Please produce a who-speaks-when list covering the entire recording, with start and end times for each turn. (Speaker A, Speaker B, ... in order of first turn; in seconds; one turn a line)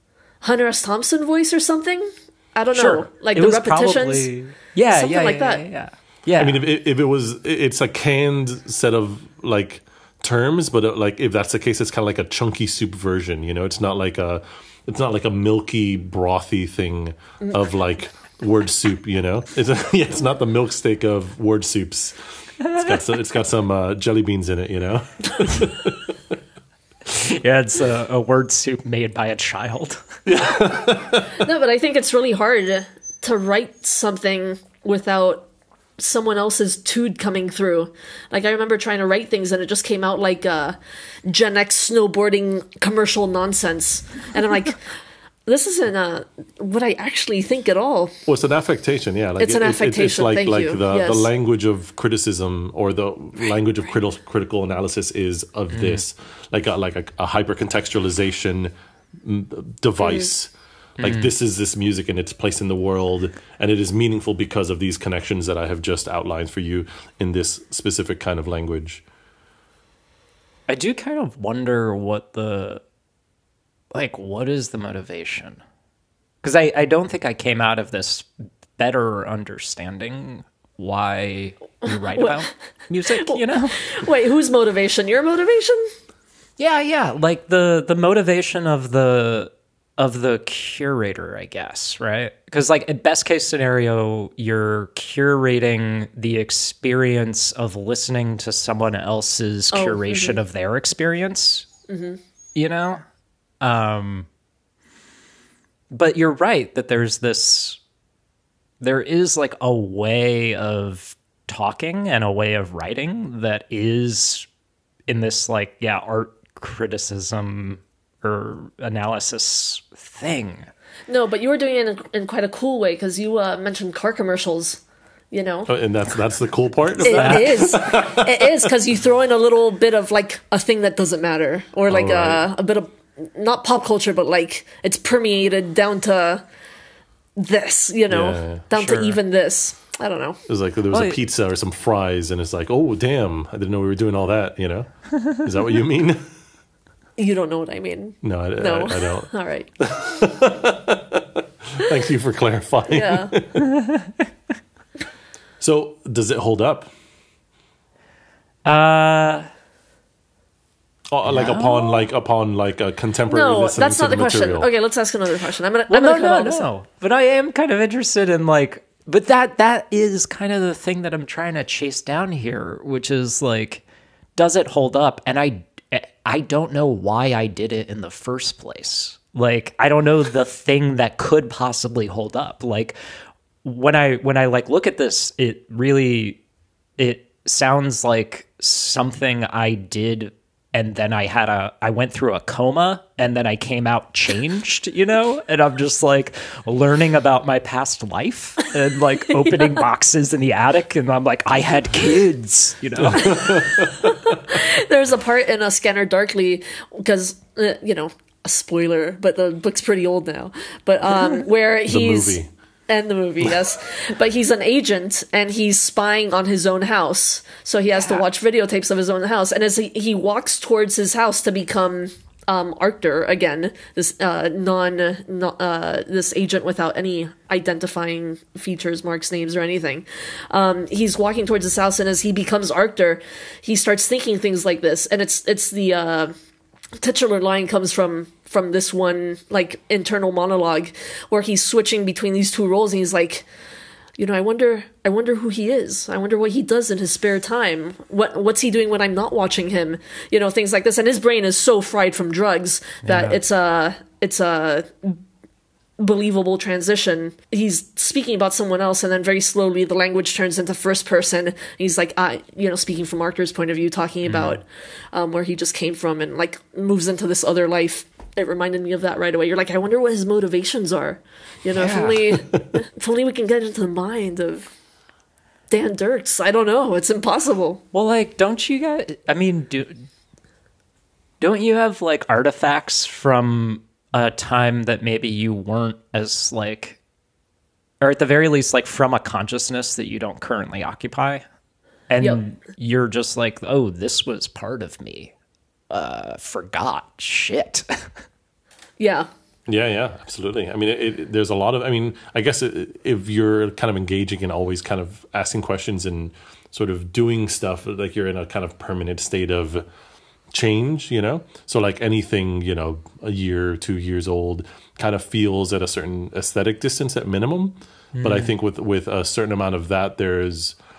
Speaker A: 0.4-4.3
Speaker B: 2.7-6.6
Speaker A: 4.9-5.6
Speaker C: 6.4-26.1
Speaker B: 22.6-23.0
Speaker B: 27.1-30.0
Speaker C: 30.2-31.4
Speaker A: 31.3-35.5
Speaker A: 36.0-44.8
Speaker A: 45.5-48.2
Speaker C: 48.2-69.0
Speaker A: 49.4-51.3
Speaker B: 55.7-56.0
Speaker A: 60.0-60.3
Speaker B: 61.0-61.3
Speaker B: 70.7-72.8
Speaker B: 73.9-75.6
Speaker B: 76.4-83.8
Speaker A: 82.0-82.5
Speaker A: 83.2-85.9
Speaker B: 86.6-101.7
Speaker A: 99.7-100.4
Speaker A: 101.9-102.2
Speaker B: 102.5-103.0
Speaker B: 103.6-104.3
Speaker B: 105.9-107.8
Speaker B: 108.8-114.5
Speaker B: 115.1-120.7
Speaker A: 121.1-125.7
Speaker C: 125.7-128.7
Speaker A: 127.0-136.4
Speaker B: 127.1-127.6
Speaker C: 131.9-132.4
Speaker A: 137.4-140.4
Speaker C: 138.1-139.2
Speaker C: 140.5-146.2
Speaker B: 140.9-141.2
Speaker A: 147.2-149.7
Speaker C: 148.2-153.5
Speaker A: 152.9-153.3
Speaker B: 153.6-154.2
Speaker C: 155.6-156.9
Speaker B: 158.6-159.5
Speaker C: 161.1-164.7
Speaker B: 161.3-162.0
Speaker A: 163.3-166.7
Speaker B: 165.9-173.8
Speaker B: 174.3-182.9
Speaker B: 183.6-186.4
Speaker B: 187.0-203.8
Speaker C: 203.0-204.1
Speaker A: 203.2-236.3
Speaker C: 211.9-212.5
Speaker A: 237.0-243.4
Speaker A: 244.2-255.2
Speaker B: 253.0-253.4
Speaker A: 256.0-274.7
Speaker B: 264.2-264.6
Speaker B: 271.7-272.4
Speaker A: 275.7-277.8
Speaker B: 277.9-280.1
Speaker B: 281.4-287.0
Speaker B: 288.0-291.4
Speaker B: 292.1-295.3
Speaker B: 295.9-298.2
Speaker A: 299.0-299.3
Speaker C: 299.7-309.8
Speaker C: 310.5-320.8
Speaker B: 318.1-318.5